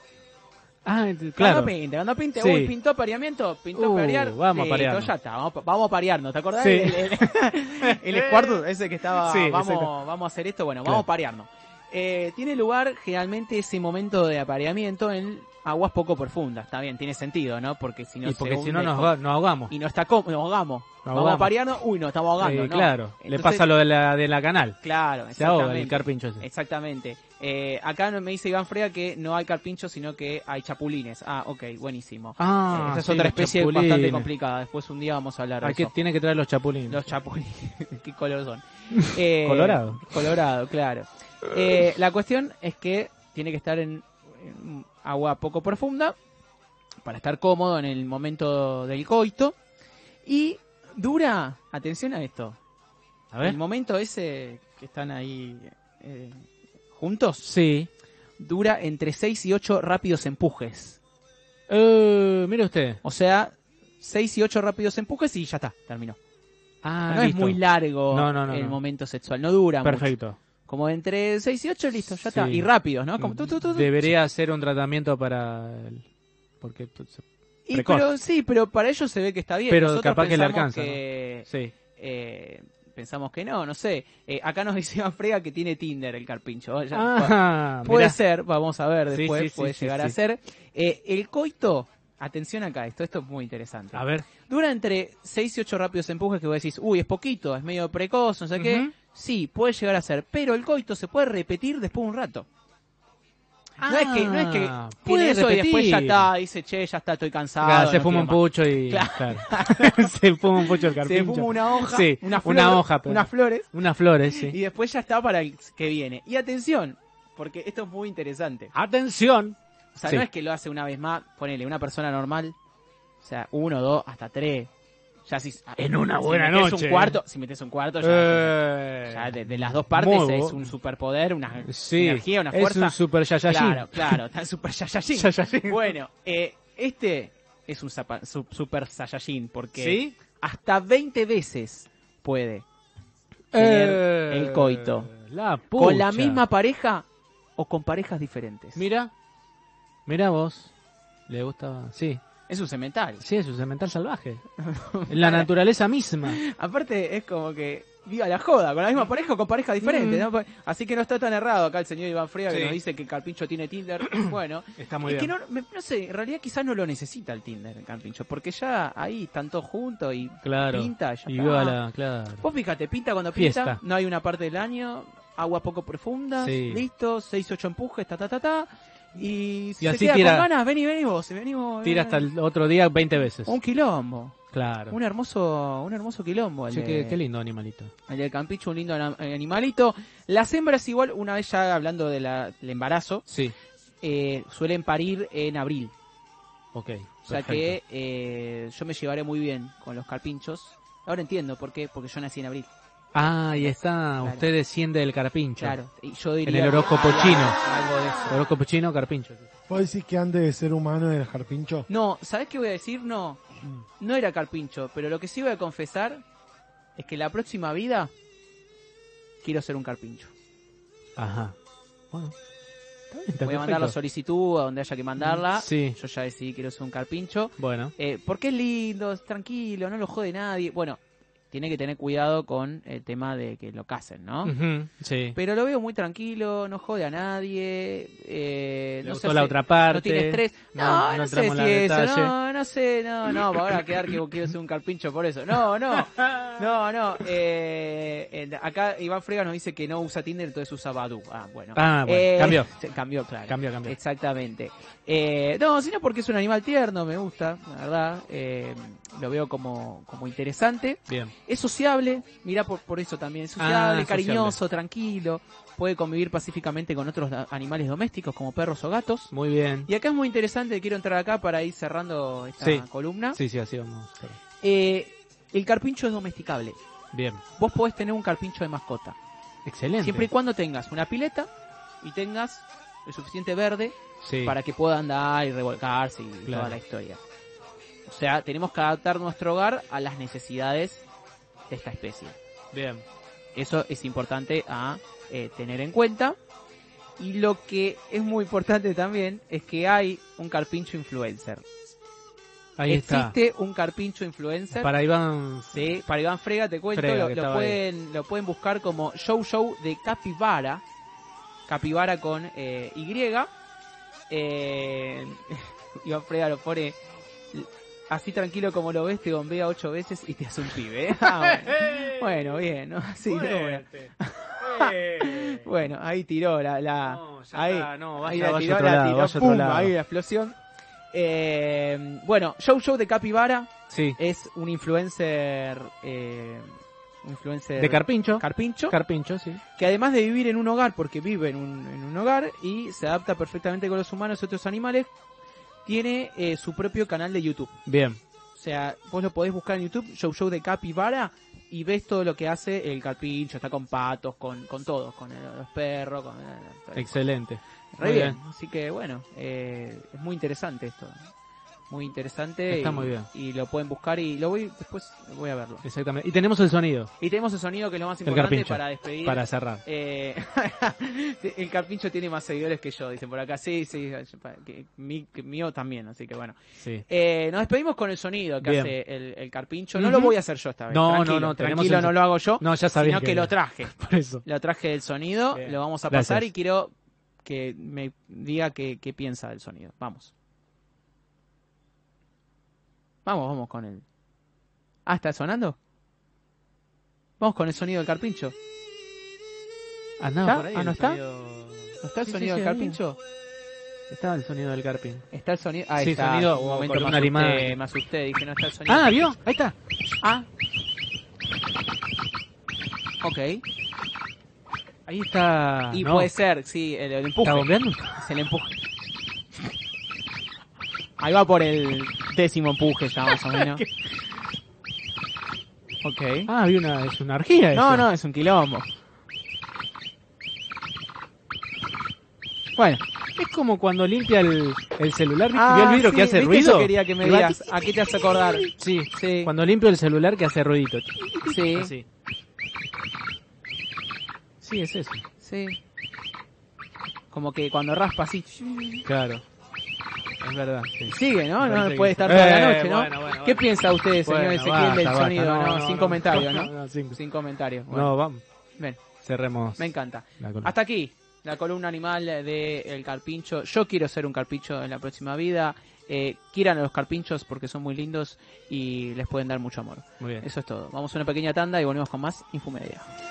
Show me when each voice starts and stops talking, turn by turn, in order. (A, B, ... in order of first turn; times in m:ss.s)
0:00.8-0:01.7 A
0:01.4-0:19.2 B
0:02.3-0:02.7 A
0:03.7-0:05.1 A
0:06.6-0:07.2 A
0:07.8-0:08.6 A
0:09.2-0:09.9 A
0:18.2-0:19.7 A
0:19.7-0:23.6 B
0:21.0-0:21.5 A
0:22.4-0:24.8 A
0:24.8-0:35.9 B
0:25.3-0:26.4 A
0:32.4-0:34.3 A
0:35.6-0:37.1 A
0:36.9-0:46.2 B
0:39.4-0:40.3 A
0:47.0-0:49.6 B
0:50.2-0:52.6 B
0:53.4-0:57.5 B
0:57.4-0:57.9 A
0:58.4-1:01.0 B
1:01.7-1:03.0 A
1:03.0-1:06.2 B
1:06.8-1:08.8 A
1:07.1-1:10.1 B
1:09.8-1:10.4 A
1:10.6-1:14.1 B
1:12.3-1:16.0 A
1:16.6-1:18.1 A
1:17.7-1:42.5 B
1:19.7-1:21.7 A
1:26.9-1:28.2 A
1:29.1-1:30.2 A
1:33.9-1:34.2 A
1:38.6-1:38.9 A
1:43.8-1:46.3 A
1:43.8-1:50.0 B
1:47.6-1:54.6 A
1:50.6-1:53.7 B
1:54.3-1:58.7 B
1:58.7-2:00.2 A
1:59.9-2:02.6 B
2:03.2-2:04.7 B
2:05.2-2:22.6 B
2:05.8-2:07.2 A
2:08.0-2:10.7 A
2:11.6-2:14.2 A
2:15.1-2:15.9 A
2:19.8-2:20.1 A
2:23.5-2:26.4 A
2:23.5-2:25.1 B
2:25.7-2:28.8 B
2:28.8-2:29.1 A
2:30.0-2:30.7 A
2:31.3-2:32.2 A
2:32.5-2:33.2 B
2:33.2-2:34.4 A
2:34.6-2:35.5 B
2:35.1-2:36.4 A
2:36.2-2:51.8 B
2:39.8-2:40.3 A
2:42.5-2:42.8 A
2:44.8-2:45.3 A
2:50.4-2:52.4 A
2:52.4-3:02.3 B
2:53.3-2:53.8 A
2:56.4-2:56.8 A
2:59.8-3:00.5 A
3:01.8-3:03.6 A
3:03.4-3:04.4 B
3:04.5-3:05.0 A
3:04.9-3:07.2 B
3:06.7-3:07.9 A
3:08.1-3:13.2 B
3:13.3-3:13.5 A
3:14.0-3:15.9 B
3:16.7-3:17.8 A
3:17.2-3:22.7 B
3:23.1-3:25.8 A
3:23.5-3:24.5 B
3:25.6-3:28.4 B
3:26.4-3:27.6 A
3:28.3-3:29.4 A
3:29.7-3:31.9 C
3:31.9-3:36.2 B
3:37.0-3:38.1 B
3:39.4-3:40.3 B
3:41.2-3:41.6 A
3:43.1-3:43.9 A
3:43.4-3:51.0 B
3:45.2-3:46.0 A
3:47.6-3:47.9 A
3:51.5-3:54.5 B
3:54.4-3:55.4 A
3:55.3-4:29.3 B
3:59.0-4:02.3 A
4:05.9-4:06.6 A
4:11.8-4:12.7 A
4:13.5-4:14.0 A
4:23.6-4:24.6 A
4:29.3-4:29.9 A
4:29.8-4:33.4 B
4:32.6-4:34.4 A
4:34.6-4:36.8 B
4:37.1-4:37.4 A
4:37.6-4:39.2 B
4:39.6-4:40.3 A
4:40.0-4:41.5 B
4:42.0-4:47.2 B
4:44.2-4:44.6 A
4:46.5-4:46.8 A
4:48.0-4:51.0 B
4:51.7-4:52.4 B
4:52.7-4:53.0 A
4:53.5-4:56.4 B
4:57.2-5:01.6 B
5:02.8-5:03.3 A
5:02.9-5:04.9 B
5:04.7-5:05.9 A
5:05.7-5:10.8 B
5:06.9-5:07.8 A
5:11.7-5:13.5 B
5:14.3-5:17.0 B
5:17.5-5:30.6 B
5:21.2-5:22.6 A
5:23.2-5:25.7 A
5:27.0-5:29.9 A
5:31.1-5:39.0 B
5:33.9-5:34.2 A
5:37.8-5:39.6 A
5:39.8-5:45.1 B
5:45.8-5:47.7 B
5:47.9-5:48.2 A
5:48.5-5:57.1 B
5:57.0-5:58.4 A
5:57.9-6:01.2 B
6:01.9-6:05.8 B
6:02.7-6:03.3 A
6:05.8-6:07.1 A
6:07.2-6:30.3 B
6:08.2-6:09.8 A
6:16.8-6:17.0 A
6:18.6-6:18.9 A
6:20.0-6:20.3 A
6:20.9-6:24.4 A
6:25.5-6:26.5 A
6:33.2-6:34.0 B
6:35.0-6:35.8 B
6:37.4-6:38.5 B
6:40.2-6:43.0 A
6:40.4-6:41.2 B
6:42.0-6:43.2 B
6:44.1-6:45.3 A
6:45.3-6:49.3 B
6:46.0-6:47.8 A
6:48.9-6:49.8 A
6:50.2-6:50.5 B
6:53.2-6:53.6 B
6:55.1-6:56.3 A
6:55.9-6:58.8 B
6:57.4-6:58.2 A
7:01.2-7:03.8 B
7:03.5-7:03.9 A
7:06.0-7:06.5 B
7:06.5-7:08.1 A
7:07.7-7:08.9 B
7:12.8-7:13.0 B
7:13.4-7:17.6 A
7:15.5-7:19.5 B
7:18.7-7:22.0 A
7:21.4-7:21.9 B
7:24.6-7:25.2 A
7:25.4-7:25.8 B
7:27.3-7:29.0 B
7:29.0-7:29.4 A
7:30.4-7:37.2 A
7:31.1-7:38.1 B
7:37.9-7:38.4 A
7:39.2-7:40.7 A
7:39.8-7:53.1 B
7:50.2-7:50.4 A